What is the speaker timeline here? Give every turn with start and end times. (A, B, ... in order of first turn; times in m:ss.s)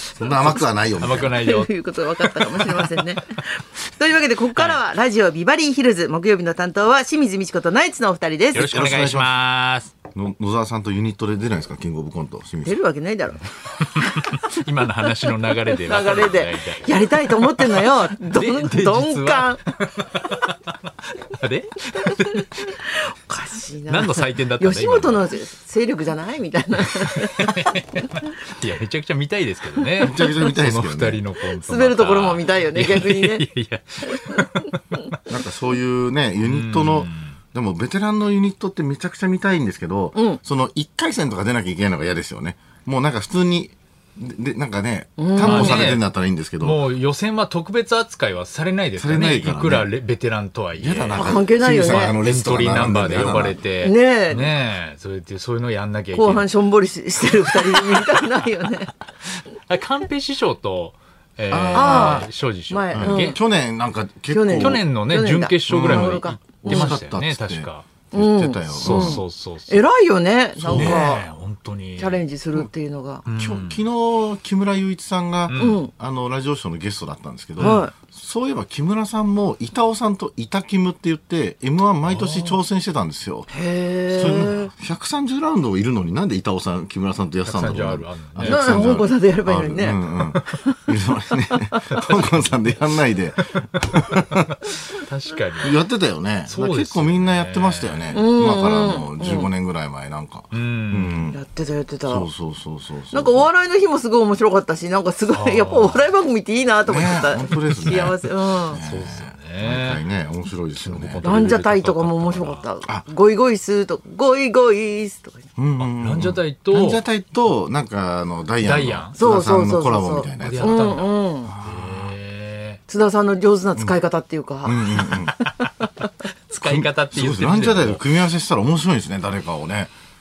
0:00.2-0:01.3 A
0:00.2-0:00.7 B
0:01.0-0:03.1 C
0:01.2-0:08.7 B
0:04.5-0:04.8 C
0:08.5-0:09.9 C
0:08.6-0:09.3 A
0:10.1-0:12.8 A
0:12.6-0:15.1 B
0:13.8-0:22.8 C
0:15.6-0:19.6 B
0:22.1-0:28.1 B
0:23.9-0:25.2 C
0:26.8-0:35.2 C
0:30.0-0:31.2 A
0:31.6-0:33.5 B
0:34.1-0:35.1 B
0:35.2-0:46.8 A
0:36.4-0:37.4 C
0:40.1-0:40.4 B
0:45.2-0:45.9 B
0:45.4-0:46.0 C
0:46.6-0:56.5 C
0:49.0-0:49.9 A
0:50.8-0:53.6 A
0:51.2-0:52.2 B
0:52.9-0:54.6 B
0:56.1-0:58.9 B
0:57.5-0:58.2 C
0:59.7-1:03.4 C
1:01.5-1:02.3 A
1:01.5-1:03.4 B
1:02.9-1:04.8 A
1:04.3-1:06.9 B
1:04.6-1:07.9 C
1:05.7-1:09.2 A
1:08.1-1:11.2 B
1:08.7-1:09.9 C
1:10.6-1:11.1 A
1:10.7-1:12.2 C
1:12.0-1:13.2 B
1:13.2-1:13.8 C
1:13.4-1:23.5 A
1:15.5-1:15.8 C
1:15.6-1:15.9 B
1:17.6-1:17.8 C
1:17.6-1:17.9 B
1:22.0-1:22.6 C
1:23.5-1:24.7 B
1:24.1-1:34.7 A
1:27.4-1:28.9 C
1:28.4-1:30.8 B
1:32.0-1:32.5 C
1:33.9-1:35.8 C
1:35.6-1:41.4 A
1:36.4-1:38.1 C
1:38.1-1:39.5 B
1:40.5-1:41.2 C
1:41.3-1:42.3 B
1:42.1-1:43.5 A
1:43.1-1:48.8 B
1:45.3-1:46.1 C
1:46.9-1:51.2 A
1:48.8-1:50.0 C
1:50.8-1:52.6 C
1:51.2-1:55.4 B
1:55.6-2:02.1 A
1:55.8-1:57.0 C
1:58.6-1:59.2 C
1:59.2-2:01.5 B
2:00.4-2:02.8 C
2:02.9-2:05.9 B
2:04.6-2:05.4 A
2:05.3-2:05.6 C
2:06.5-2:08.0 C
2:06.6-2:09.9 A